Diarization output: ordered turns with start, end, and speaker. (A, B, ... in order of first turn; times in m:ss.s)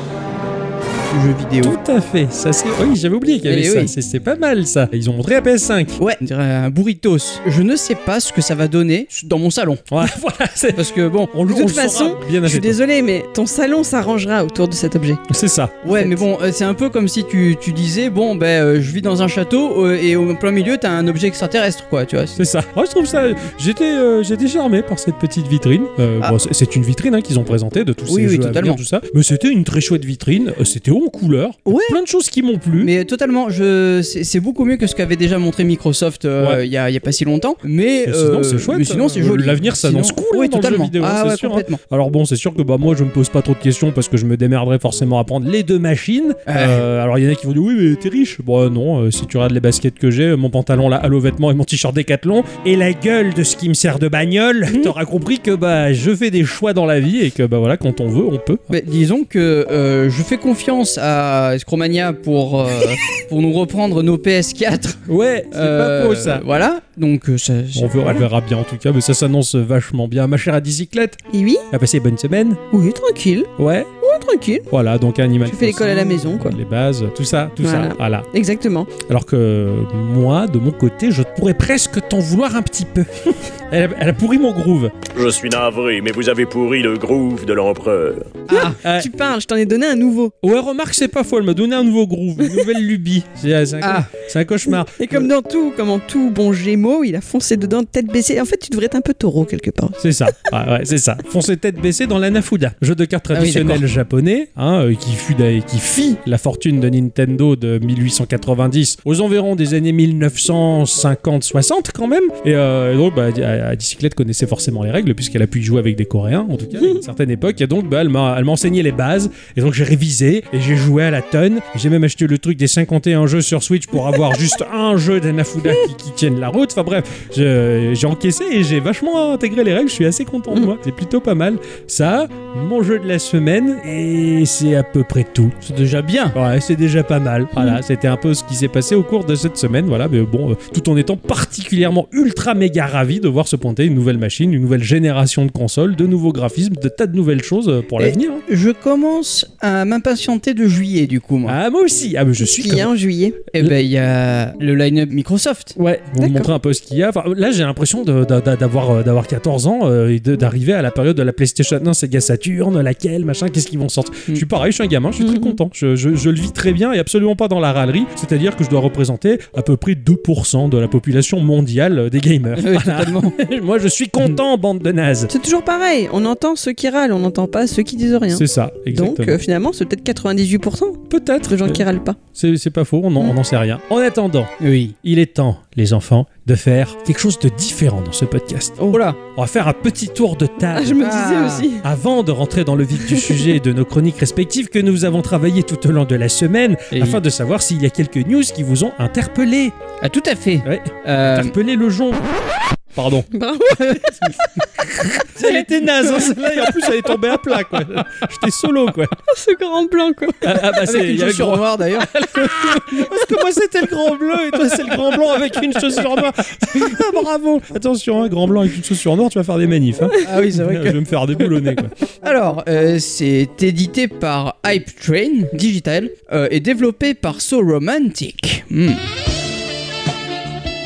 0:01.1-0:01.8 A
0:01.6-0:06.0 B
0:03.4-0:03.9 A
0:06.0-0:10.0 A
0:09.9-0:12.8 B
0:10.7-0:11.3 A
0:11.5-0:15.2 C
0:15.3-0:16.2 B
0:15.8-0:22.4 A
0:22.4-0:32.9 B
0:28.1-0:28.8 A
0:31.6-0:32.0 A
0:32.8-0:41.8 A
0:38.0-0:58.6 B
0:46.4-0:46.8 A
0:58.7-1:08.3 A
1:05.0-1:06.4 B
1:07.7-1:12.6 B
1:11.3-1:11.7 C
1:12.7-1:13.5 C
1:13.6-1:13.9 B
1:14.0-1:14.7 C
1:14.7-1:18.3 B
1:15.5-1:16.6 C
1:17.6-1:18.9 C
1:19.0-1:24.9 B
1:25.1-1:28.4 D
1:28.5-1:28.8 A
1:28.5-1:30.3 C
1:28.8-1:29.1 B
1:30.4-1:35.3 B
1:33.8-1:34.1 A
1:34.8-1:40.0 C
1:40.0-2:15.6 B
1:43.3-1:43.8 A
2:15.6-2:16.4 A
2:16.3-2:28.4 B
2:28.0-2:31.6 A
2:31.4-2:32.9 B
2:32.4-2:33.4 C
2:33.5-2:35.7 A
2:35.8-2:55.3 B
2:36.2-2:36.5 C
2:45.2-2:45.6 C
2:52.6-2:53.4 A
2:55.3-3:02.2 C
2:58.3-2:59.4 B
3:01.1-3:04.5 B
3:04.6-3:04.9 A
3:05.0-3:11.0 B
3:08.9-3:09.2 A
3:10.7-3:11.8 C
3:11.0-3:11.7 A
3:11.7-3:19.7 B
3:13.1-3:13.4 C
3:16.9-3:17.2 A
3:20.0-3:21.5 A
3:20.6-3:22.3 B
3:22.9-3:23.3 B
3:23.3-3:24.3 C
3:24.8-3:29.2 B
3:29.3-3:30.4 C
3:30.4-3:41.9 B
3:30.6-3:33.2 A
3:40.2-3:41.0 A
3:42.2-3:49.0 A